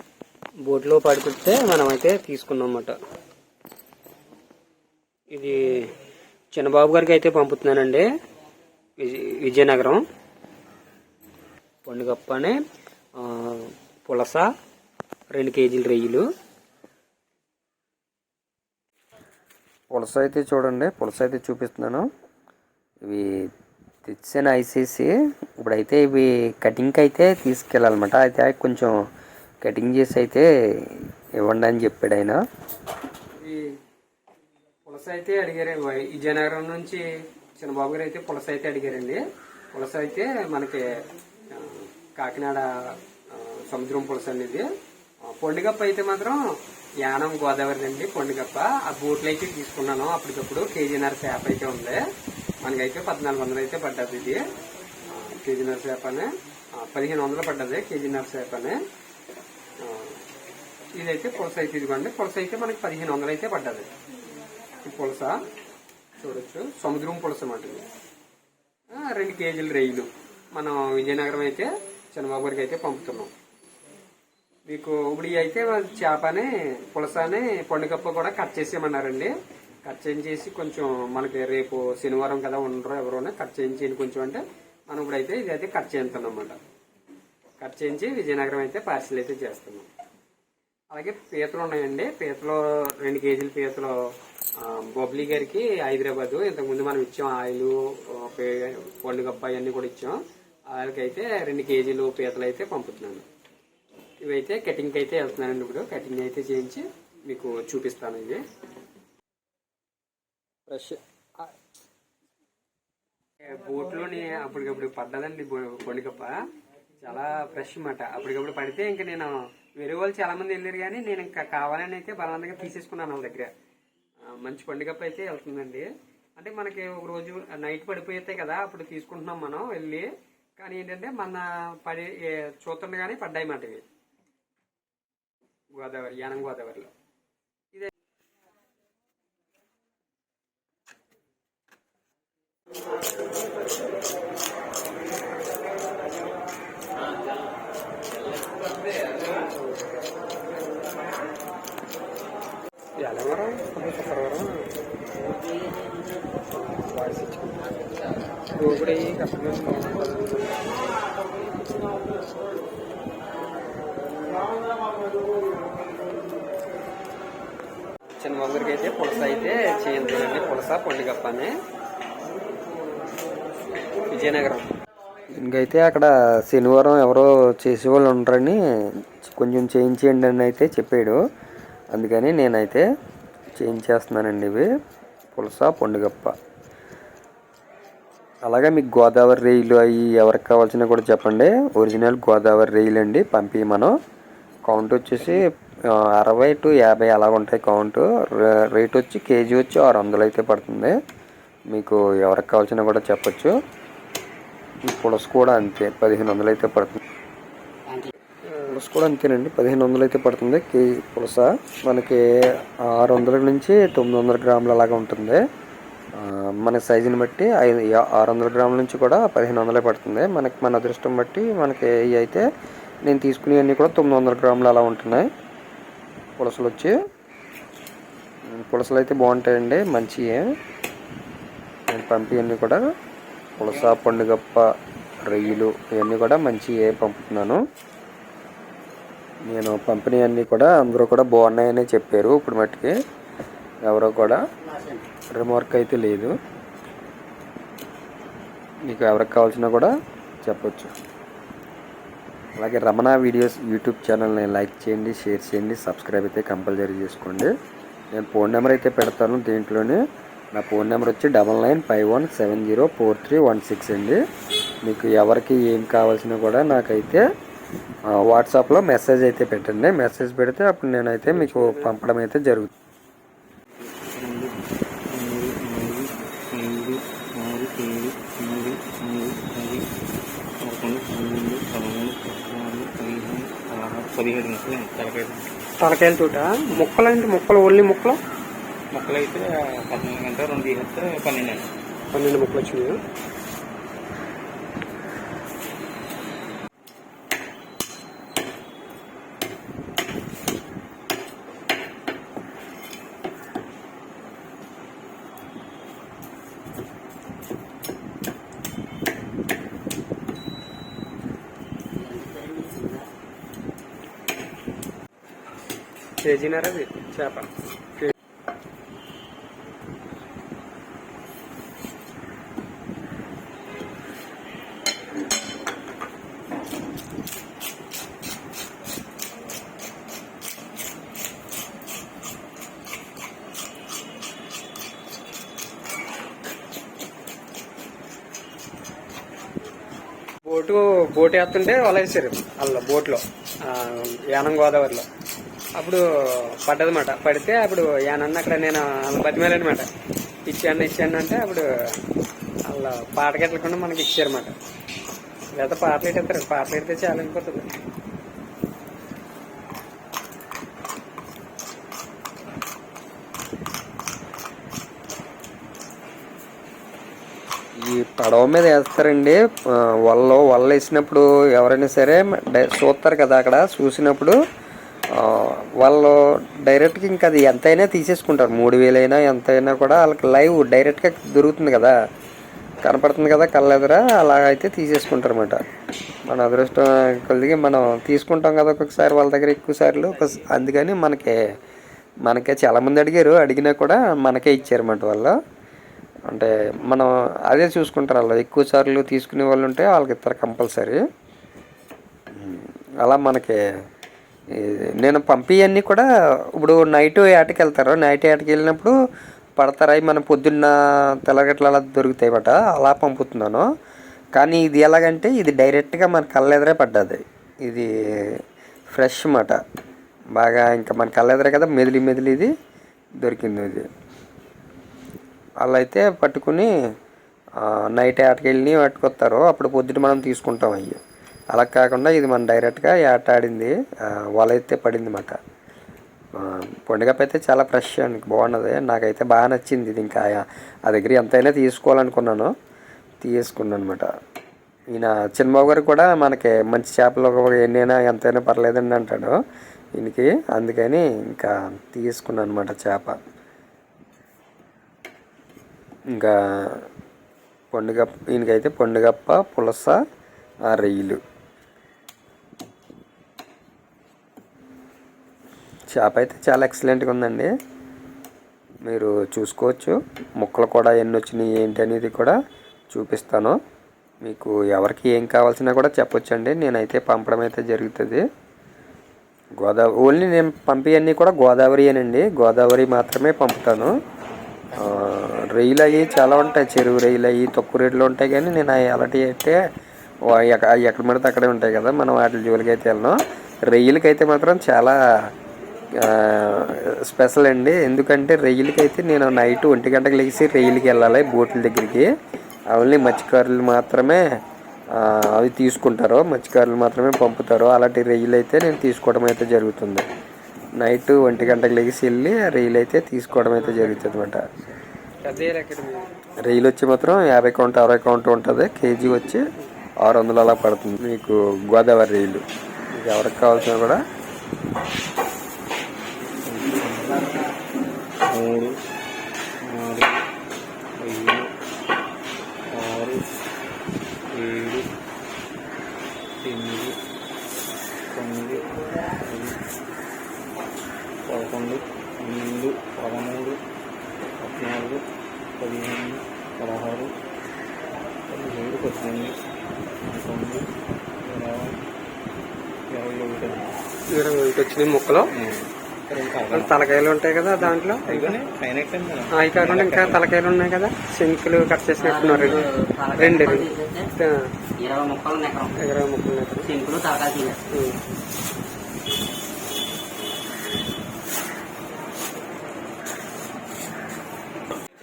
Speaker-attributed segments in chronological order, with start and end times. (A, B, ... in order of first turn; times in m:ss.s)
0:00.6-0:03.0 A
0:05.3-0:05.9 A
0:06.5-0:08.1 A
0:09.0-0:10.0 A
0:11.8-0:12.6 A
0:13.2-0:14.5 A
0:15.3-0:16.2 A
0:19.9-0:22.1 B
0:23.0-0:23.5 B
0:24.1-0:29.0 B
0:29.6-0:32.4 B
0:33.4-0:33.8 A
0:34.8-0:39.2 A
0:39.7-0:40.9 A
0:41.5-0:44.7 A
0:45.2-0:46.4 A
0:47.0-0:52.0 A
0:52.6-0:54.4 A
0:55.1-0:58.8 A
0:59.8-1:00.2 A
1:00.9-1:03.9 A
1:04.8-1:05.4 A
1:06.2-1:07.8 A
1:08.9-1:13.3 A
1:14.7-1:26.6 A
1:27.6-1:29.9 A
1:30.9-1:34.0 A
1:34.6-1:43.2 A
1:44.2-1:48.4 A
1:50.7-1:51.0 B
1:53.5-1:56.4 A
1:57.0-2:03.5 A
2:04.2-2:13.8 A
2:15.7-2:16.9 A
2:29.3-2:30.0 A
2:33.0-2:34.7 A
2:36.6-2:37.7 A
2:38.5-2:40.9 A
2:48.2-2:51.5 A
2:54.0-2:54.7 A
2:55.4-3:01.2 B
3:01.9-3:02.9 B
3:03.6-3:04.7 B
3:05.4-3:06.3 B
3:08.4-3:13.9 B
3:14.6-3:21.0 B
3:21.7-3:23.6 B
3:24.9-3:27.0 B
3:28.7-3:35.4 B
3:36.2-3:42.4 B
3:43.0-3:45.3 B
3:46.4-3:46.9 B
3:48.5-3:50.5 B
3:51.9-3:52.8 B
3:53.6-3:54.7 B
3:55.2-3:57.6 B
3:59.5-4:02.9 B
4:03.8-4:04.4 B
4:04.6-4:05.1 C
4:05.3-4:06.3 B
4:08.8-4:10.9 B
4:12.6-4:17.5 B
4:18.1-4:20.0 B
4:20.5-4:24.2 B
4:24.8-4:27.2 B
4:28.1-4:32.7 B
4:31.3-4:32.0 A
4:33.8-4:34.6 D
4:35.1-4:39.8 D
4:40.6-4:45.5 D
4:45.8-4:48.2 A
4:48.9-4:51.7 D
4:52.1-4:53.0 A
5:11.9-5:13.1 C
5:16.2-5:18.1 A
5:40.5-5:45.1 A
5:45.8-5:49.9 A
5:50.4-5:51.7 A
5:52.7-5:54.6 A
5:55.6-5:57.8 A
6:07.8-6:14.4 B
6:15.1-6:22.0 B
6:22.8-6:25.6 B
6:26.3-6:31.4 B
6:32.2-6:35.4 B
6:36.3-6:41.0 B
6:42.4-6:43.6 B
6:44.5-6:48.9 B
6:49.6-6:53.7 B
6:54.4-6:59.6 B
7:00.4-7:02.5 B
7:03.2-7:03.9 B
7:05.6-7:06.7 B
7:07.6-7:11.0 B
7:11.5-7:15.4 B
7:16.4-7:22.5 B
7:23.2-7:24.1 B
7:24.9-7:29.4 B
7:30.0-7:33.2 B
7:36.1-7:36.9 B
7:37.7-7:40.0 B
7:40.7-7:41.2 B
7:45.9-7:47.5 B
7:48.8-7:52.4 B
7:52.9-7:53.6 B
7:54.2-7:58.2 B
7:59.6-8:03.9 B
8:04.8-8:09.6 B
8:10.2-8:15.0 B
8:16.0-8:22.1 B
8:22.7-8:24.2 B
8:24.9-8:30.1 B
8:30.8-8:34.4 B
8:33.6-8:34.0 A
8:35.2-8:36.1 A
8:36.4-8:39.4 B
8:40.0-8:44.0 B
8:46.5-8:47.2 D
8:48.3-8:48.7 D
8:49.6-8:50.2 D
8:51.0-8:51.5 D
8:52.7-8:53.3 D
8:54.3-8:54.9 D
8:56.4-8:57.0 D
8:58.1-8:58.7 D
8:59.2-8:59.6 D
9:01.3-9:03.6 D
9:04.4-9:05.0 D
9:05.6-9:07.1 D
9:08.3-9:09.4 D
9:10.0-9:10.7 D
9:11.2-9:11.8 D
9:12.9-9:13.8 D
9:14.1-9:15.3 A
9:15.3-9:15.7 D
9:16.1-9:18.4 A
9:16.3-9:16.8 D
9:17.6-9:20.2 D
9:19.3-9:24.5 A
9:22.0-9:24.1 C
9:24.8-9:25.8 C
9:25.8-9:26.7 A
9:26.6-9:27.6 C
9:27.7-9:28.0 A